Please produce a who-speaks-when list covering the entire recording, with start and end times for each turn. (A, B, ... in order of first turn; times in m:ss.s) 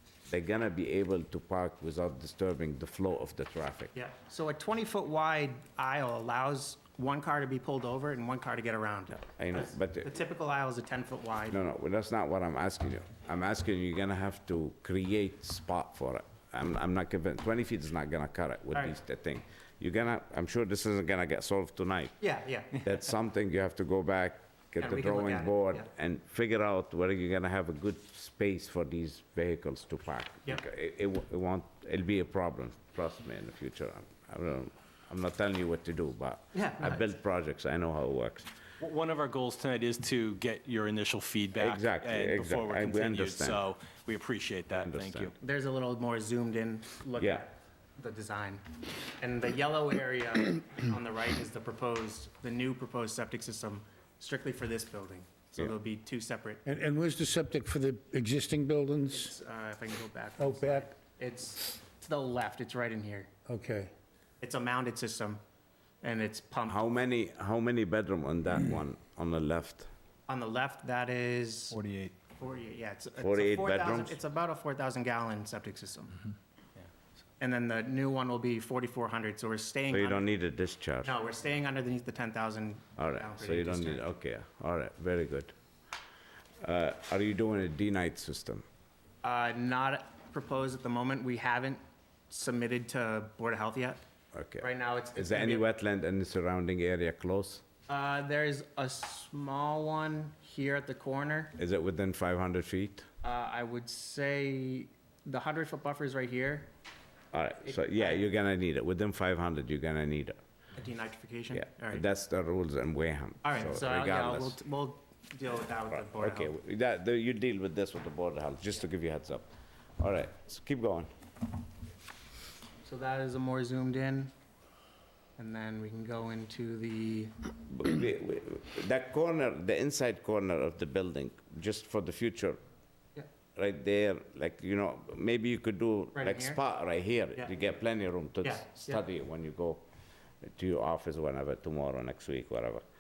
0:00.3-0:03.9 A
0:03.9-0:09.4 B
0:09.4-0:10.1 A
0:10.0-0:11.6 B
0:11.5-0:22.2 A
0:22.2-0:22.8 B
0:22.8-0:38.5 A
0:24.8-0:25.9 B
0:36.5-0:37.0 B
0:38.8-0:45.3 C
0:41.6-0:43.6 A
0:44.8-0:45.3 A
0:45.4-0:48.6 B
0:47.2-0:47.5 A
0:49.2-0:56.6 B
0:56.6-0:59.3 D
0:59.1-1:03.3 B
1:00.4-1:00.9 D
1:03.5-1:03.9 D
1:04.4-1:05.4 B
1:06.0-1:06.8 B
1:06.7-1:09.9 A
1:10.3-1:11.8 B
1:11.7-1:12.1 C
1:12.4-1:16.2 B
1:13.2-1:14.2 A
1:17.4-1:20.3 B
1:19.9-1:21.1 A
1:21.0-1:24.0 B
1:23.0-1:25.5 A
1:26.6-1:28.6 A
1:29.2-1:34.0 B
1:34.3-1:37.6 A
1:34.6-1:35.7 B
1:37.9-1:41.6 B
1:41.6-1:43.1 A
1:43.2-1:46.7 B
1:47.3-1:50.4 A
1:47.6-1:48.3 B
1:50.8-1:52.1 B
1:51.5-1:54.6 A
1:53.4-1:56.5 B
1:55.9-1:59.5 A
2:00.0-2:01.1 A
2:02.8-2:04.3 B
2:05.4-2:07.3 B
2:07.7-2:12.6 A
2:13.6-2:19.8 A
2:16.2-2:16.6 B
2:18.4-2:19.0 B
2:20.4-2:22.8 A